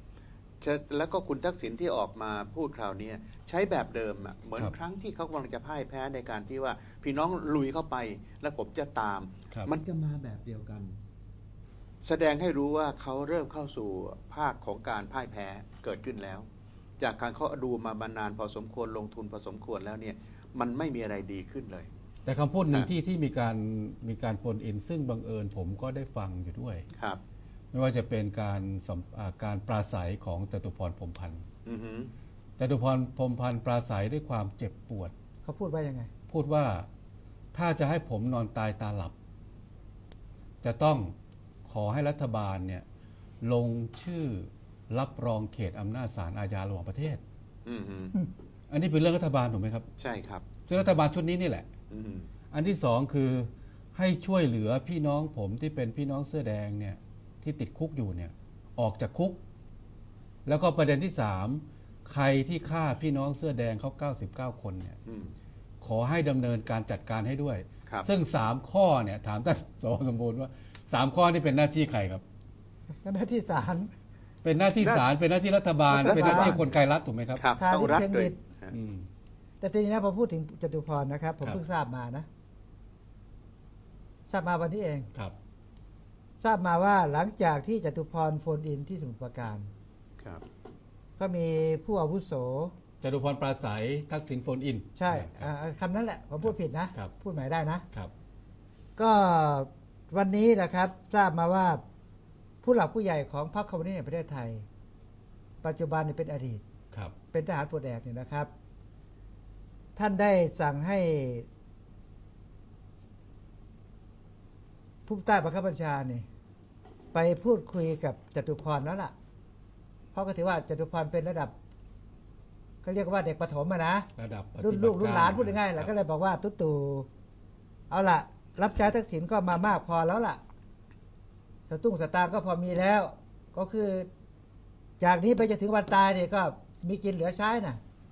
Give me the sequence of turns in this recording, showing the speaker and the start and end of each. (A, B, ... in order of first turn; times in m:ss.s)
0:00.6-0:11.0 A
0:12.0-0:16.5 A
0:17.0-0:21.9 A
0:22.2-0:26.9 B
0:26.9-0:27.2 A
0:27.7-0:31.4 B
0:31.6-0:32.1 A
0:32.6-0:35.1 B
0:35.4-0:36.1 C
0:36.3-0:36.9 B
0:37.5-0:39.1 B
0:40.6-0:41.1 B
0:41.7-0:42.8 B
0:43.4-0:47.2 B
0:47.6-0:48.2 A
0:48.7-0:49.9 B
0:50.0-0:50.5 A
0:50.6-0:51.7 B
0:51.9-0:52.3 A
0:52.5-0:59.4 B
1:00.4-1:05.0 B
1:05.0-1:05.3 A
1:05.8-1:12.2 B
1:12.9-1:13.9 C
1:14.4-1:17.4 B
1:15.9-1:16.6 A
1:15.9-1:16.6 C
1:17.4-1:18.7 A
1:17.6-1:18.4 C
1:18.7-1:19.1 B
1:19.6-1:22.2 C
1:24.3-1:25.1 C
1:26.4-1:29.7 C
1:30.2-1:30.4 A
1:31.2-1:32.7 C
1:33.0-1:35.5 B
1:35.0-1:37.8 C
1:36.4-1:37.1 B
1:39.0-1:41.8 C
1:42.6-1:44.6 C
1:45.6-1:46.6 C
1:47.3-1:48.5 C
1:50.0-1:51.4 C
1:55.0-1:56.2 C
1:57.1-1:59.1 C
2:00.1-2:01.5 C
2:02.8-2:04.1 C
2:04.2-2:05.9 B
2:04.6-2:07.1 C
2:07.9-2:10.4 C
2:11.7-2:14.1 C
2:15.0-2:17.8 C